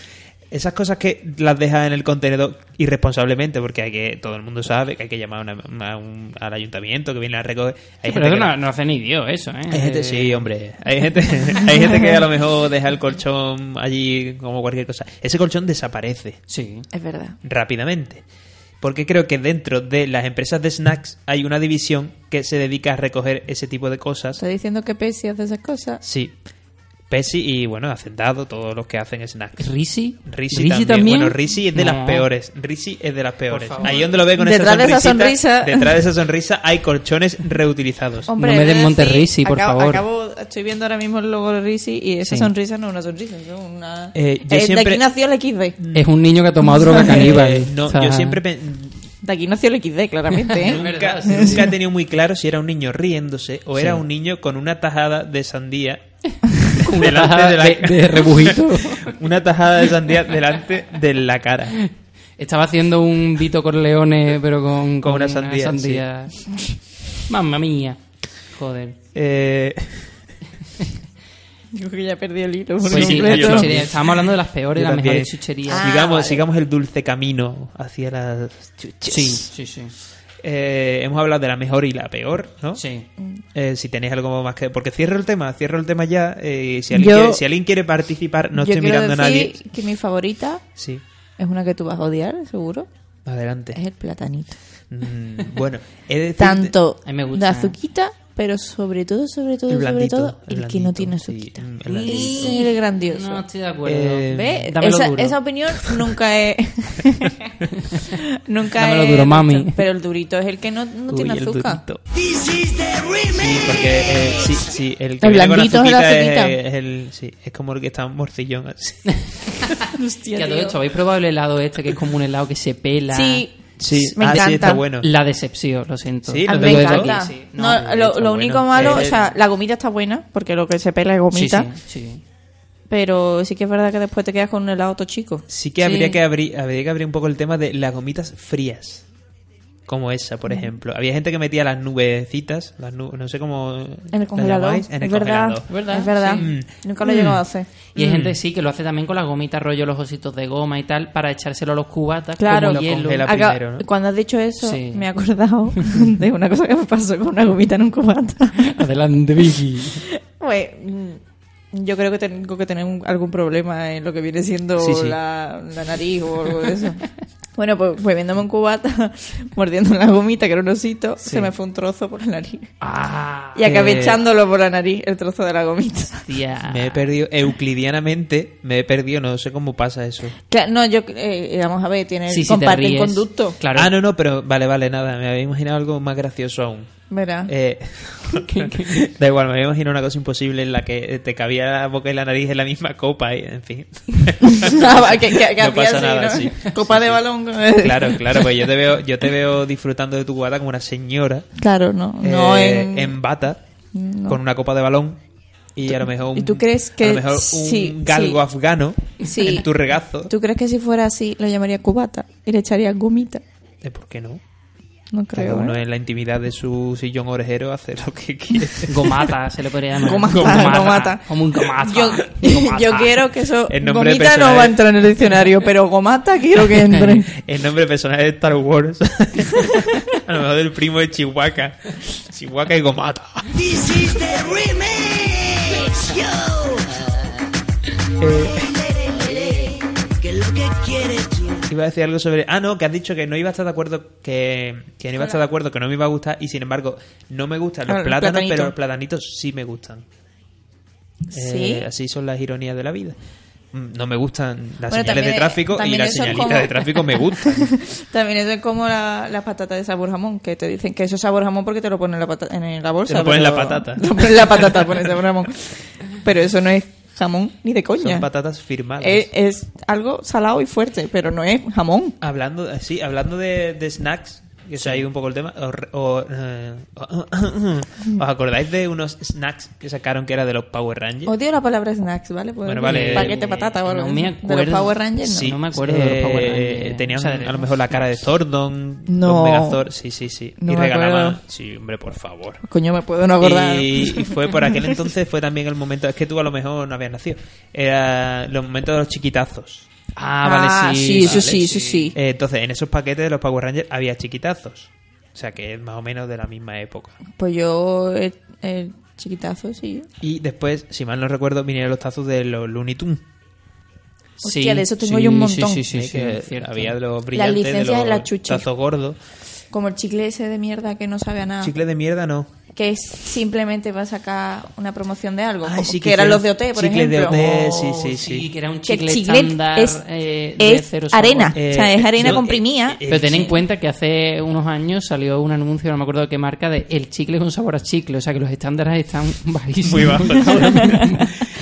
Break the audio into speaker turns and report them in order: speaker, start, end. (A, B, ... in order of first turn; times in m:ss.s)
0:00.5-0:08.5 A
0:08.0-0:10.5 B
0:09.7-0:16.4 A
0:16.5-0:16.9 B
0:16.9-0:17.4 C
0:17.4-0:18.2 A
0:18.8-0:24.4 A
0:24.4-0:26.0 C
0:26.0-0:26.4 A
0:27.1-0:29.7 A
0:29.6-0:32.3 B
0:30.2-0:38.3 A
0:33.5-0:34.0 B
0:33.8-0:35.9 C
0:38.3-0:45.8 C
0:38.4-0:40.0 B
0:42.2-0:42.5 B
0:44.1-0:45.0 A
0:45.8-0:46.1 A
0:45.9-0:48.4 B
0:46.7-0:47.2 C
0:46.7-0:49.0 A
0:49.2-0:51.6 C
0:50.3-0:51.7 B
0:50.6-0:56.0 A
0:53.7-0:54.0 B
0:56.6-0:59.1 B
0:56.7-1:01.8 A
1:01.8-1:06.6 B
1:05.0-1:06.0 A
1:07.2-1:08.0 B
1:08.5-1:09.0 B
1:09.1-1:10.2 A
1:11.7-1:13.7 C
1:12.8-1:19.5 A
1:12.9-1:15.9 B
1:15.7-1:16.4 C
1:19.1-1:19.9 B
1:20.4-1:22.8 A
1:22.7-1:23.1 B
1:23.5-1:29.6 A
1:26.9-1:27.4 C
1:28.5-1:30.6 C
1:30.8-1:31.0 A
1:31.4-1:32.9 C
1:33.2-1:33.8 A
1:33.7-1:34.6 C
1:34.9-1:36.7 A
1:36.4-1:43.4 C
1:37.0-1:37.8 B
1:39.7-1:42.6 A
1:41.9-1:45.4 B
1:43.8-1:44.6 A
1:44.3-1:51.8 C
1:48.7-1:49.8 B
1:51.1-1:52.0 A
1:52.1-1:54.6 D
1:53.3-1:59.8 A
1:55.2-1:56.6 C
1:59.1-1:59.8 B
1:59.9-2:00.8 C
2:00.4-2:03.4 B
2:03.1-2:04.8 C
2:03.8-2:05.1 A
2:04.2-2:08.0 B
2:06.2-2:09.2 A
2:06.5-2:11.7 C
2:08.7-2:09.1 B
2:11.3-2:12.2 B
2:12.9-2:16.1 C
2:15.5-2:19.0 A
2:19.8-2:25.7 A
2:24.1-2:27.7 C
2:25.7-2:26.5 B
2:26.3-2:26.7 A
2:27.1-2:27.4 B
2:27.9-2:28.4 A
2:27.9-2:33.4 B
2:32.4-2:38.7 C
2:32.5-2:33.8 A
2:34.6-2:35.1 B
2:38.6-2:40.0 B
2:40.0-2:41.2 C
2:41.7-2:47.0 C
2:44.8-2:45.2 A
2:47.6-2:52.7 C
2:51.2-2:51.5 B
2:52.8-2:53.9 B
2:53.6-2:56.3 C
2:53.6-2:54.2 A
2:56.3-2:57.1 B
2:56.7-3:00.4 A
3:00.5-3:03.6 C
3:02.3-3:03.9 B
3:03.7-3:21.5 A
3:07.1-3:07.5 C
3:08.4-3:09.0 B
3:14.5-3:18.5 C
3:21.6-3:23.2 C
3:22.2-3:23.6 A
3:23.9-3:24.4 C
3:24.3-3:25.2 A
3:25.7-3:30.3 A
3:25.9-3:28.4 C
3:29.2-3:29.6 C
3:30.3-3:33.4 C
3:33.8-3:34.4 A
3:35.1-3:35.8 C
3:35.3-3:39.3 A
3:38.8-3:43.3 B
3:40.0-3:47.3 C
3:40.2-3:41.0 A
3:43.7-3:44.8 A
3:47.3-3:54.2 A
3:49.6-3:50.0 C
3:53.5-3:57.1 D
3:58.2-3:58.7 A
3:58.4-4:01.6 D
4:01.7-4:10.0 A
4:07.8-4:08.7 C
4:11.3-4:11.8 C
4:11.3-4:13.2 A
4:13.7-4:17.8 A
4:14.9-4:28.3 C
4:23.1-4:24.8 A
4:28.0-4:29.3 A
4:29.0-4:32.2 C
4:32.2-4:41.3 A
4:34.8-4:35.0 B
4:41.2-4:45.5 C
4:42.6-4:43.4 A
4:42.9-4:48.3 B
4:45.2-4:52.6 A
4:49.1-4:49.8 C
4:50.6-4:51.4 C
4:52.6-4:54.4 C
4:53.4-4:59.9 A
5:00.2-5:02.1 B
5:00.4-5:02.1 C
5:01.2-5:07.2 A
5:07.4-5:10.1 C
5:10.2-5:13.2 A
5:14.4-5:15.8 C
5:14.4-5:17.0 B
5:15.9-5:19.2 A
5:17.3-5:18.6 C
5:19.7-5:21.7 C
5:21.6-5:22.5 A
5:22.7-5:27.4 C
5:25.6-5:28.5 A
5:27.3-5:31.6 B
5:28.8-5:30.0 C
5:30.6-5:33.0 C
5:31.5-5:33.6 A
5:33.1-5:41.3 B
5:39.8-5:41.1 A
5:40.7-5:41.0 C